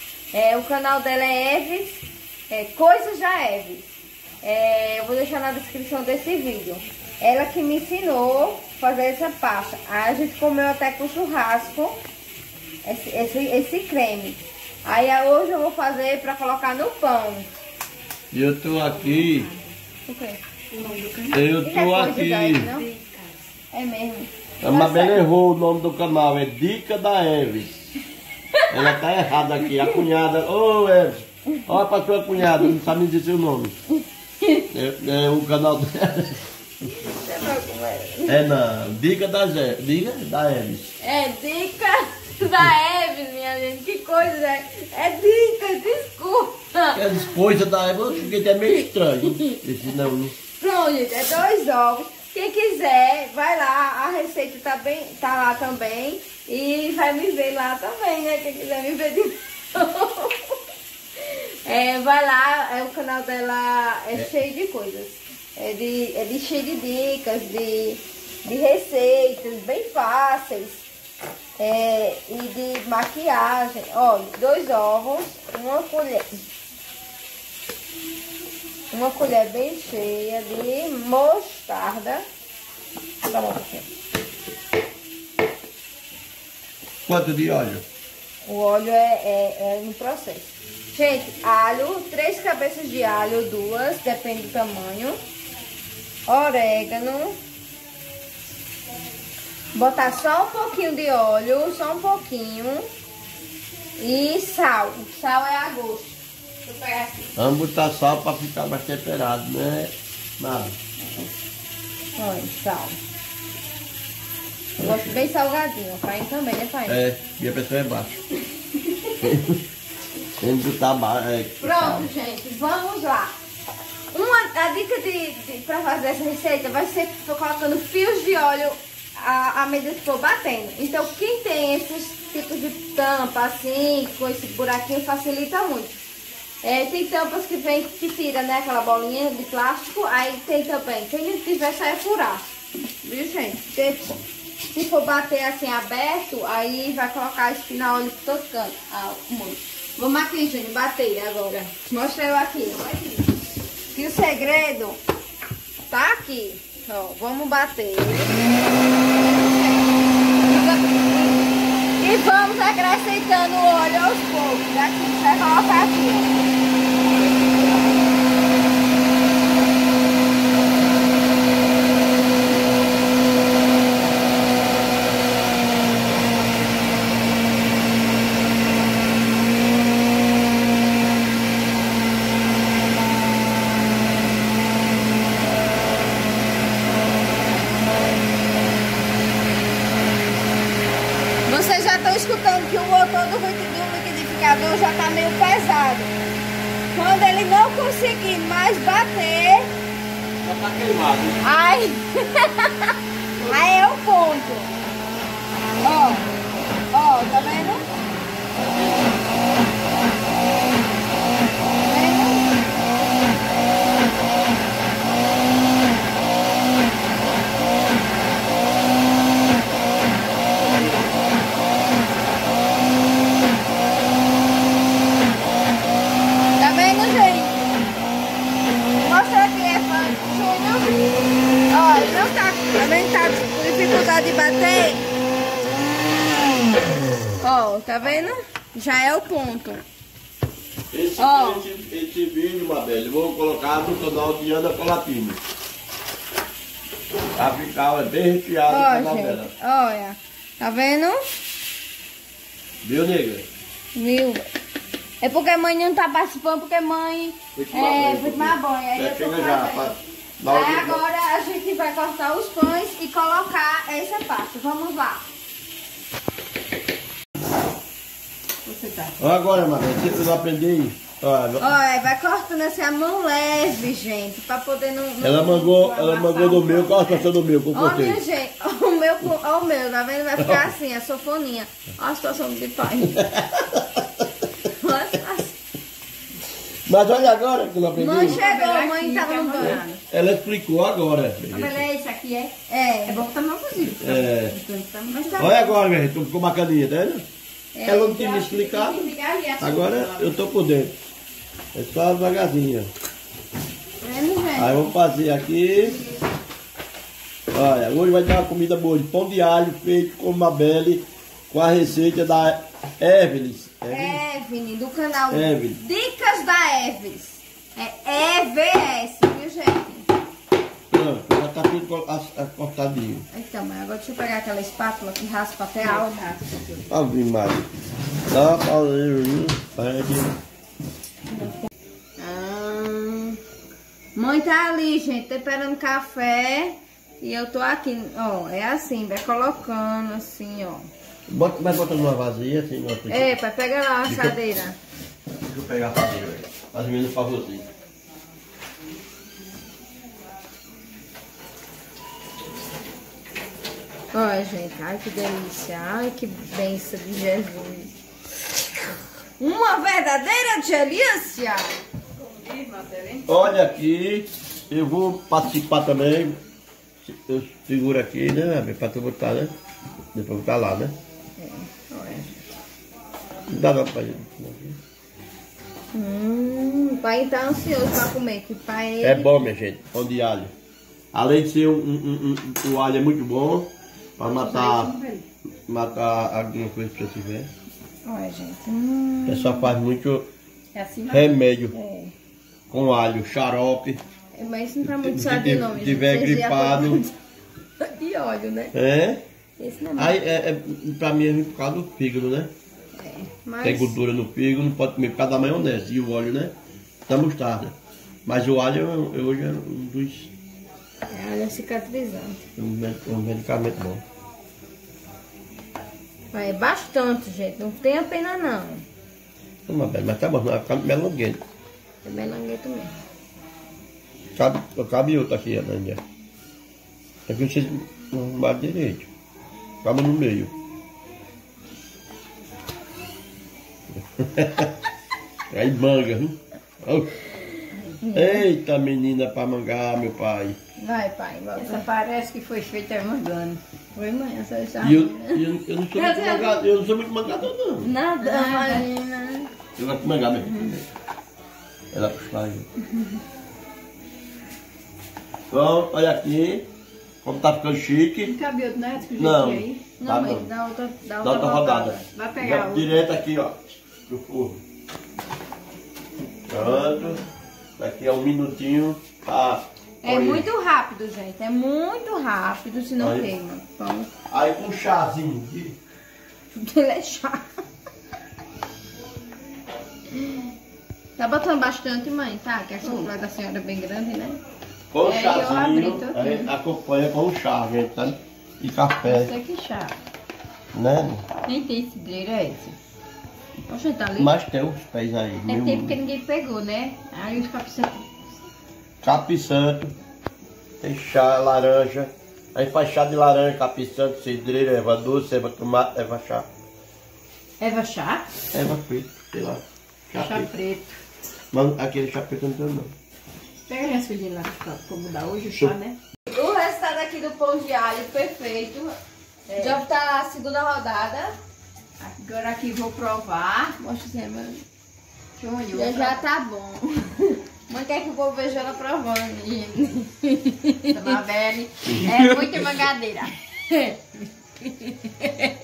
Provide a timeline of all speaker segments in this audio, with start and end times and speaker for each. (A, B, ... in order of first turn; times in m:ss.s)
0:00.3-0:03.9 A
0:04.4-0:12.0 A
0:12.8-0:17.5 A
0:18.3-0:19.5 B
0:18.9-0:19.7 C
0:20.1-0:20.4 A
0:20.7-0:21.4 C
0:21.3-0:22.7 B
0:21.6-0:22.9 A
0:22.6-0:23.4 C
0:23.7-0:25.2 A
0:24.6-0:28.0 B
0:28.7-0:33.8 B
0:34.7-0:36.4 B
0:37.0-0:38.4 A
0:38.3-0:40.9 B
0:41.0-0:47.3 A
0:46.9-0:50.3 B
0:49.3-0:49.6 A
0:50.6-1:00.6 A
1:01.2-1:10.9 A
1:11.6-1:16.5 A
1:18.9-1:22.2 A
1:23.2-1:23.8 A
1:27.1-1:27.8 B
1:28.4-1:35.2 A
1:36.3-1:37.4 A
1:39.7-1:42.9 A
1:44.0-1:47.3 A
1:47.4-1:50.8 B
1:52.2-1:53.0 A
1:54.8-1:57.0 A
1:54.8-1:55.2 B
1:56.9-1:58.1 B
1:59.2-1:59.6 B
2:00.4-2:02.1 B
2:01.6-2:03.3 A
2:04.1-2:16.0 A
2:16.6-2:22.5 A
2:23.0-2:24.2 A
2:24.7-2:33.2 A
2:33.9-2:35.0 A
2:35.8-2:38.4 A
2:39.1-2:39.8 A
2:40.4-2:46.4 A
3:11.5-3:16.1 A
3:16.9-3:19.7 A
3:20.4-3:21.4 B
3:21.4-3:22.9 A
3:23.4-3:24.7 A
3:25.8-3:26.3 A
3:26.9-3:27.8 A
3:28.5-3:29.2 B
3:31.8-3:32.5 A
3:46.6-3:47.7 A
3:49.0-3:51.0 A
3:51.7-3:55.1 A
3:57.4-3:59.8 A
4:00.9-4:05.4 B
4:01.2-4:01.7 A
4:07.4-4:09.5 B
4:08.7-4:11.2 A
4:12.8-4:13.5 B
4:14.0-4:14.4 A
4:15.2-4:25.3 A
4:17.6-4:21.0 B
4:28.6-4:29.2 C
4:29.2-4:31.7 B
4:31.6-4:43.2 A
4:35.2-4:38.2 B
4:40.4-4:40.7 B
4:43.1-4:44.2 B
4:44.6-4:45.6 A
4:46.9-4:48.4 B
4:48.0-4:49.8 A
4:48.2-4:50.0 C
4:49.6-4:51.8 B
4:51.5-4:52.5 C
4:52.7-4:53.2 A
4:53.0-4:55.4 C
4:54.0-4:54.6 B
4:55.1-4:55.7 A
4:55.4-4:57.2 B
4:57.8-4:58.3 A
4:57.8-5:01.0 B
4:58.2-5:00.4 C
5:01.7-5:02.9 B
5:04.0-5:04.8 A
5:04.6-5:06.0 B
5:07.5-5:14.2 B
5:13.9-5:20.1 A
5:15.3-5:15.8 B
5:20.9-5:23.3 B
5:23.3-5:26.2 A
5:25.8-5:26.9 C
5:26.9-5:27.7 B
5:28.3-5:30.4 B
5:32.2-5:33.4 A
5:34.2-5:40.9 A
5:41.3-5:43.4 B
5:43.1-5:44.8 A
5:44.1-5:44.4 B
5:45.4-5:47.7 B
5:54.1-5:57.9 A
5:59.4-6:01.7 A
6:02.2-6:03.3 C
6:03.3-6:06.4 B
6:07.0-6:09.5 B
6:10.1-6:10.9 B
6:11.4-6:12.4 A
6:13.5-6:14.8 B
6:15.9-6:19.4 A
6:19.0-6:20.5 B
6:21.1-6:24.9 B
6:24.2-6:25.2 C
6:25.7-6:27.5 B
6:28.1-6:29.8 A
6:29.3-6:30.3 B
6:30.7-6:31.4 C
6:31.1-6:31.7 B
6:31.7-6:32.1 A
6:32.7-6:34.0 B
6:34.4-6:37.1 A
6:34.9-6:37.0 B
6:37.8-6:38.7 A
6:38.7-6:39.2 B
6:39.6-6:40.2 A
6:40.0-6:42.5 B
6:43.0-6:44.0 A
6:43.6-6:46.6 B
6:47.1-6:50.3 B
6:51.1-6:52.4 A
6:52.6-6:54.0 B
6:56.3-6:58.8 A
6:59.7-7:01.4 B
7:02.0-7:02.9 A
7:04.4-7:06.0 B
7:07.3-7:09.1 B
7:09.8-7:10.5 B
7:14.1-7:14.7 B
7:15.5-7:17.2 B
7:18.0-7:18.5 A
7:18.1-7:20.6 B
7:20.8-7:21.8 A
7:21.6-7:23.6 C
7:24.0-7:25.4 A
7:24.8-7:27.9 B
7:26.0-7:26.4 C
7:26.1-7:26.5 A
7:27.8-7:29.5 A
7:28.2-7:28.9 C
7:29.8-7:30.9 B
7:31.9-7:32.7 B
7:35.5-7:36.7 B
7:37.2-7:38.4 B
7:38.2-7:39.8 C
7:39.2-7:40.5 B
7:40.0-7:42.1 A
7:41.2-7:44.6 B
7:42.1-7:42.9 C
7:46.5-7:47.2 B
7:47.8-7:50.5 B
7:50.0-7:54.1 A
7:53.0-7:53.3 B
7:54.3-7:55.8 B
7:56.5-7:57.4 A
8:00.2-8:00.4 A
8:01.2-8:04.4 A
8:02.8-8:03.1 C
8:04.9-8:09.3 B
8:05.0-8:06.5 A
8:09.0-8:10.0 C
8:10.7-8:11.2 B
8:11.5-8:12.8 C
8:13.7-8:14.3 A
8:14.2-8:16.0 B
8:15.5-8:17.0 A
8:17.0-8:18.0 C
8:19.0-8:19.9 B
8:20.8-8:26.5 B
8:27.6-8:28.3 C
8:28.5-8:30.5 B
8:30.2-8:31.0 C
8:31.5-8:32.9 B
8:33.7-8:36.0 C
8:36.3-8:38.9 A
8:39.5-8:39.8 C
8:39.5-8:41.4 A
8:42.0-8:43.8 C
8:43.8-8:44.6 A
8:45.4-8:46.2 C
8:45.7-8:51.1 A
8:50.9-8:53.3 C
8:55.0-8:55.5 A